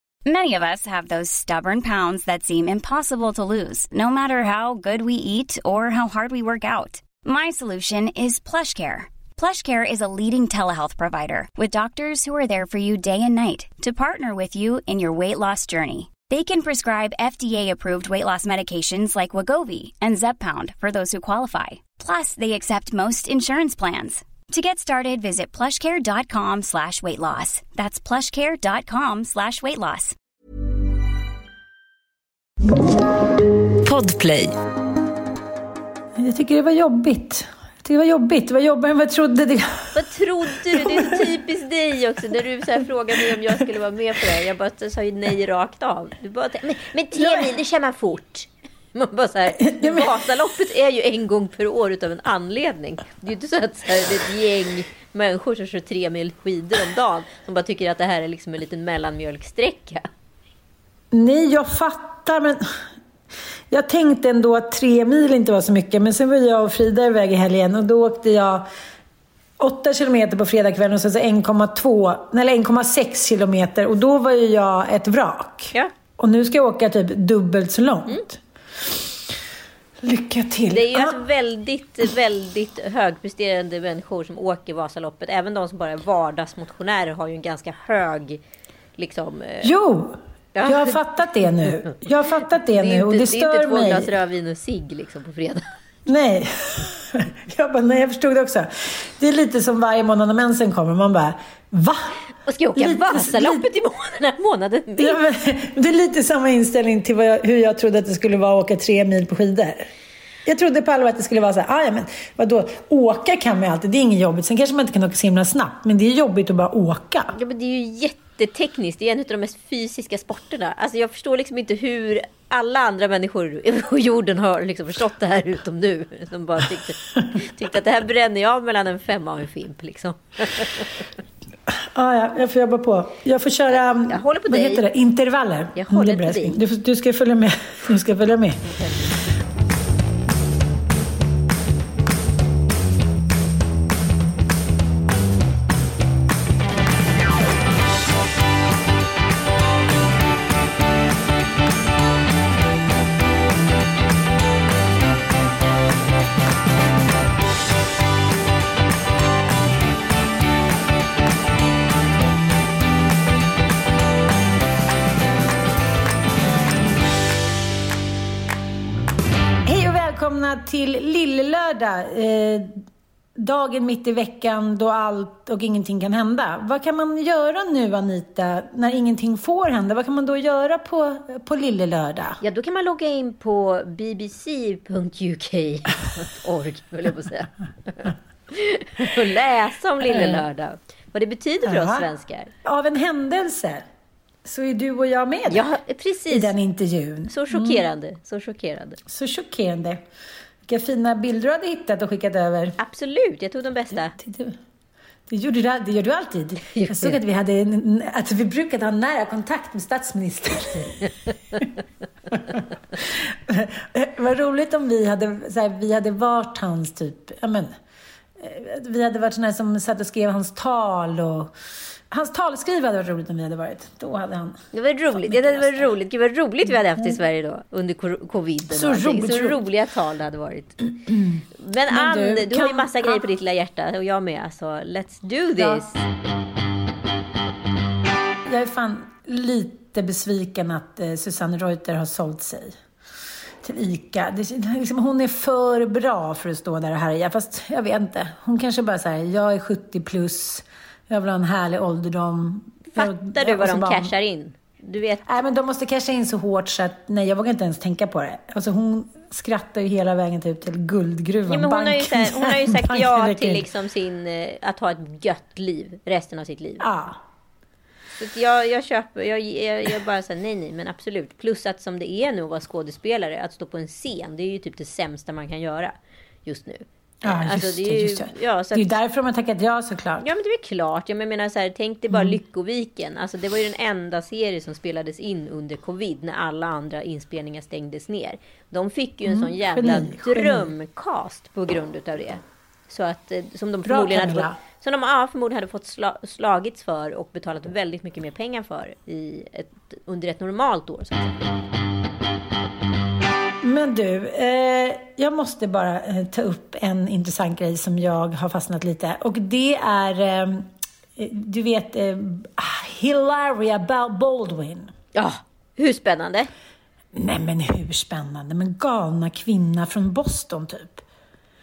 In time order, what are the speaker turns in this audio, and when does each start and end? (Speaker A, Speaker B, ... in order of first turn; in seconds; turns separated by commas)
Speaker A: 0.2-30.1, Speaker B: 36.2-40.1, Speaker C: 39.9-60.1, Speaker B: 40.7-41.1, Speaker B: 47.1-47.5, Speaker B: 49.7-50.1, Speaker B: 61.1-62.6, Speaker B: 63.7-68.7, Speaker B: 69.6-79.1, Speaker B: 80.0-81.2, Speaker C: 80.7-88.4, Speaker C: 89.0-89.7, Speaker B: 89.6-94.1, Speaker C: 90.5-91.0, Speaker C: 91.6-91.9, Speaker C: 92.7-95.7, Speaker B: 96.0-102.1, Speaker C: 102.5-105.2, Speaker B: 102.8-103.6, Speaker B: 105.0-109.9, Speaker B: 110.4-117.3, Speaker C: 117.3-131.0, Speaker B: 131.7-138.8, Speaker C: 133.7-134.8, Speaker C: 135.7-136.6, Speaker B: 169.6-172.8, Speaker B: 173.3-182.4, Speaker C: 182.4-192.5, Speaker B: 190.0-190.4, Speaker B: 191.6-192.1, Speaker B: 192.6-193.8, Speaker B: 194.4-195.7, Speaker C: 195.5-196.5, Speaker B: 196.3-197.8, Speaker C: 197.3-199.0, Speaker B: 199.1-200.0, Speaker B: 200.7-202.8, Speaker C: 202.8-204.2, Speaker B: 204.1-204.6, Speaker B: 205.3-211.1, Speaker C: 206.7-207.2, Speaker B: 212.3-217.7, Speaker B: 218.4-221.5, Speaker B: 222.1-224.6, Speaker C: 224.7-230.8, Speaker B: 225.1-225.8, Speaker B: 228.7-229.6, Speaker B: 231.1-233.2, Speaker C: 231.6-236.0, Speaker B: 238.4-242.8, Speaker B: 243.6-254.1, Speaker C: 252.9-255.3, Speaker B: 255.2-263.7, Speaker C: 261.5-266.8, Speaker B: 266.8-267.2, Speaker C: 268.2-275.9, Speaker C: 276.4-278.9, Speaker B: 277.2-280.3, Speaker C: 280.2-301.5, Speaker B: 282.1-282.4, Speaker B: 289.2-290.7, Speaker B: 293.9-294.6, Speaker B: 303.6-310.6, Speaker B: 311.2-314.9, Speaker C: 315.1-316.5, Speaker B: 317.1-321.0